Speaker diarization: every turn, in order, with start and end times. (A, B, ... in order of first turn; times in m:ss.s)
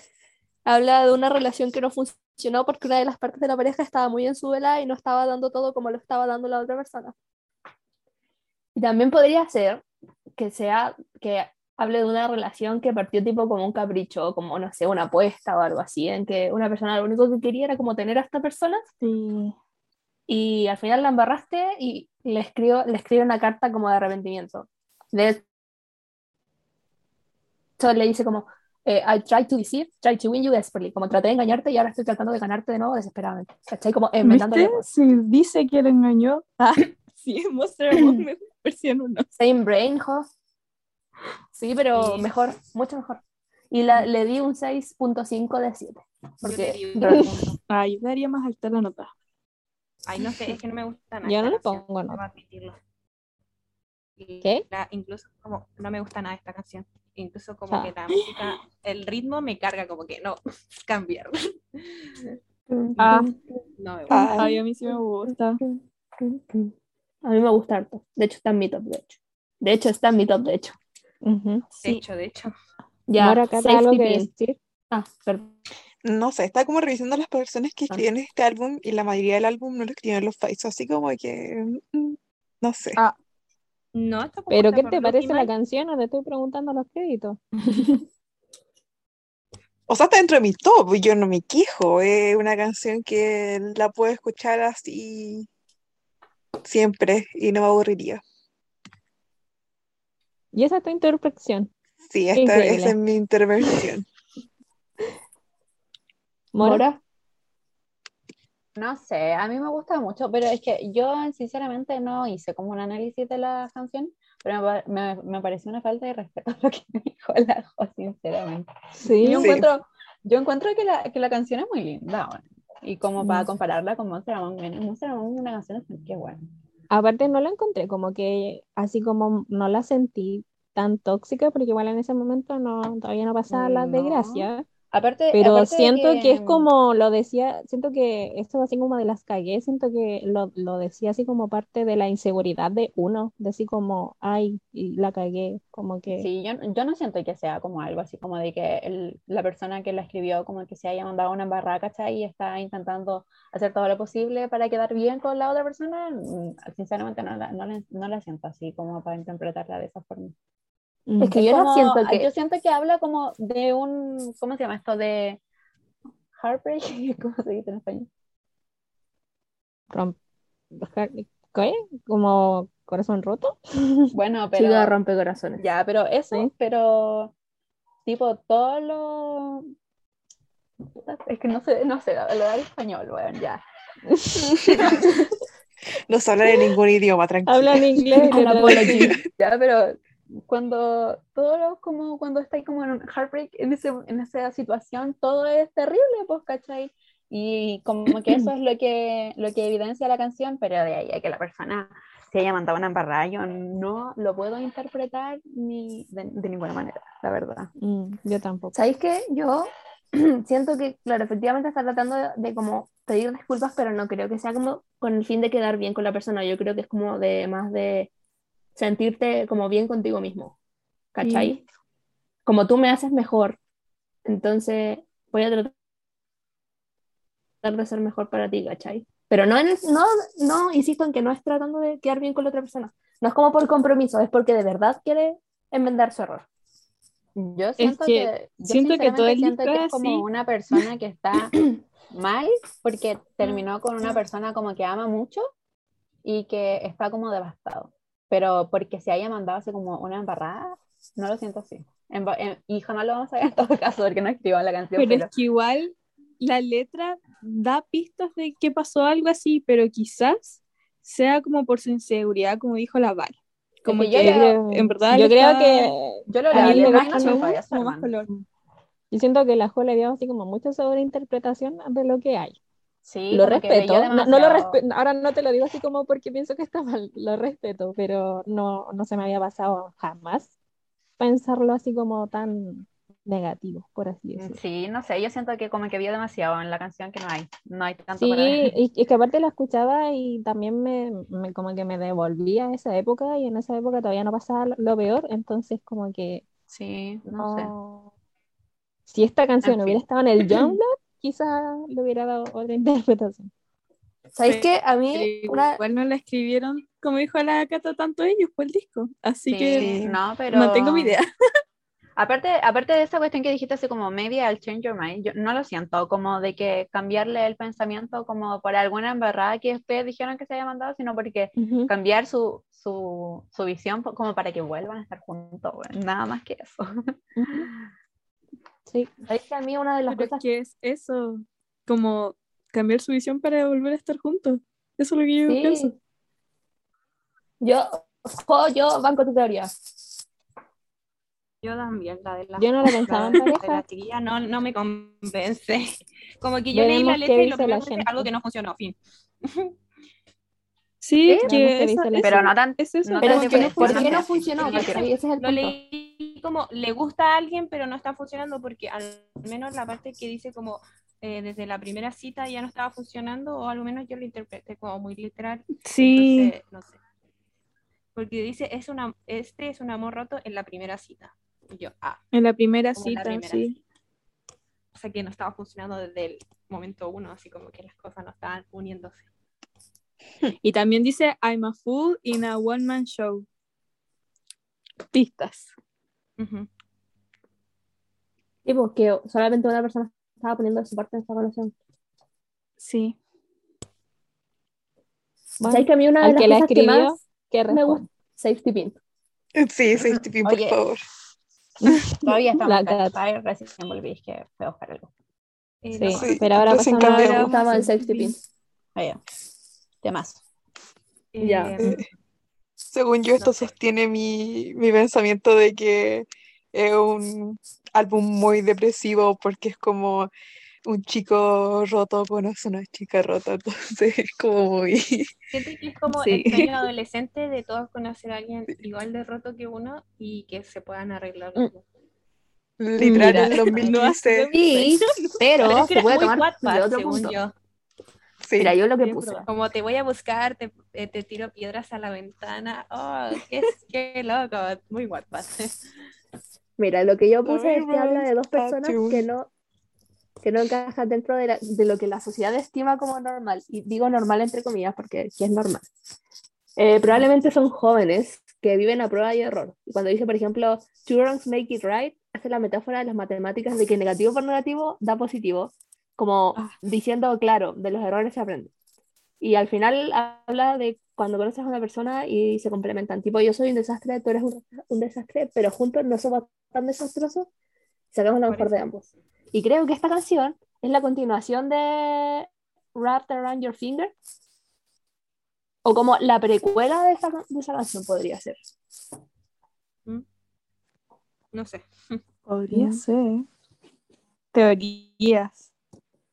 0:00.6-0:07.1 A
0:08.7-0:09.8 A
0:10.4-0:18.8 A
0:19.0-0:19.5 B
0:20.3-0:25.4 A
0:27.8-0:34.9 A
0:34.2-0:39.3 B
0:37.9-0:38.2 A
0:39.3-0:40.3 A
0:41.5-0:47.4 A
0:41.9-0:42.3 C
0:46.4-0:47.6 C
0:47.7-0:49.1 B
0:50.0-0:52.8 C
0:51.2-0:52.2 D
0:54.2-1:02.4 C
1:03.0-1:04.4 C
1:03.0-1:03.3 B
1:04.1-1:04.5 E
1:04.4-1:05.6 B
1:06.2-1:06.7 A
1:07.2-1:10.8 A
1:11.8-1:12.5 C
1:13.1-1:14.3 A
1:13.2-1:14.6 D
1:14.9-1:15.5 A
1:16.0-1:23.0 E
1:23.9-1:25.5 C
1:24.5-1:27.4 D
1:29.9-1:35.5 E
1:36.6-1:38.2 E
1:40.5-1:41.7 D
1:42.1-1:44.0 E
1:42.3-1:43.0 D
1:46.5-1:46.8 D
1:46.6-1:47.0 A
1:48.8-2:06.4 F
1:59.0-1:59.5 D
1:59.4-1:59.7 E
2:03.2-2:03.5 D
2:06.9-2:14.6 D
2:13.5-2:16.7 F
2:15.3-2:26.3 D
2:26.2-2:40.3 F
2:41.1-2:41.4 D
2:41.2-2:42.3 A
2:41.3-2:45.4 F
2:46.3-2:48.1 F
2:49.9-2:50.2 D
2:50.7-2:55.6 D
2:54.1-2:54.9 F
2:54.6-2:55.4 A
2:55.6-2:57.3 F
2:58.0-2:59.6 F
3:00.9-3:03.6 F
3:04.6-3:05.1 F
3:06.1-3:08.4 E
3:07.5-3:09.1 D
3:08.3-3:27.7 F
3:08.4-3:09.1 A
3:27.8-3:28.8 D
3:28.7-3:38.1 A
3:38.8-3:40.5 A
3:41.1-3:41.6 A
3:41.2-3:41.5 B
3:42.4-3:43.6 A
3:44.2-3:45.7 A
3:47.6-3:56.4 A
3:57.3-4:05.4 F
3:57.8-4:00.2 B
4:06.2-4:15.3 F
4:15.0-4:25.9 B
4:23.8-4:24.6 F
4:24.2-4:27.6 D
4:26.3-4:28.4 F
4:26.5-4:28.3 B
4:29.1-4:32.6 D
4:33.0-4:34.8 F
4:33.3-4:34.1 A
4:33.4-4:40.5 D
4:41.2-4:44.6 D
4:44.4-4:48.7 F
4:48.2-4:56.4 D
4:56.7-4:57.7 F
4:57.3-4:58.1 D
4:59.1-5:03.5 D
4:59.6-5:00.0 F
5:04.3-5:05.8 A
5:04.4-5:11.2 B
5:09.5-5:11.2 F
5:09.7-5:10.1 E
5:12.2-5:26.9 F
5:21.6-5:21.9 D
5:28.9-5:29.1 D
5:29.2-5:30.4 A
5:30.1-5:35.9 B
5:35.5-5:35.9 A
5:37.6-5:39.7 A
5:41.6-5:49.7 C
5:42.6-5:43.8 D
5:46.7-5:48.3 D
5:51.0-5:54.2 B
5:51.3-5:51.5 F
5:51.4-5:52.5 D
5:52.2-5:55.0 F
5:53.2-5:55.8 A
5:54.0-6:07.0 C
6:05.8-6:06.5 B
6:08.1-6:12.2 C
6:12.3-6:13.7 B
6:12.9-6:13.8 C
6:14.9-6:19.3 C
6:20.6-6:23.4 B
6:25.1-6:25.7 B
6:26.4-6:26.7 C
6:28.6-6:31.7 A
6:32.8-6:33.1 B
6:35.6-6:38.0 D
6:35.6-6:37.2 A
6:37.7-6:39.0 A
6:39.6-6:41.0 E
6:40.0-6:40.9 F
6:41.8-6:45.1 F
6:42.6-6:43.2 D
6:45.8-6:46.4 C
6:45.9-6:47.4 D
6:46.1-6:47.6 E
6:46.8-6:48.3 B
6:47.3-6:48.4 A
6:48.9-6:49.2 F
6:50.0-6:50.4 F
6:51.3-6:52.0 C
6:51.4-6:51.9 A
6:52.9-7:00.3 E
6:53.4-6:53.7 C
7:00.8-7:05.3 E
7:05.5-7:11.8 C
7:06.4-7:06.7 E
7:12.8-7:14.5 E
7:13.0-7:13.6 A
7:13.0-7:15.9 B
7:13.3-7:14.1 C
7:14.5-7:17.4 A
7:15.6-7:17.5 C
7:18.4-7:18.8 E
7:18.6-7:19.5 A
7:19.0-7:19.5 B
7:19.5-7:25.8 C
7:26.8-7:29.5 A
7:27.4-7:29.2 E
7:30.4-7:35.9 A
7:36.8-7:48.7 A
7:49.4-7:57.5 A
7:58.1-7:59.0 A
7:58.5-7:59.1 C
7:59.5-8:04.1 A
8:05.8-8:08.6 A
8:11.5-8:12.2 C
8:12.5-8:13.4 B
8:14.5-8:15.7 B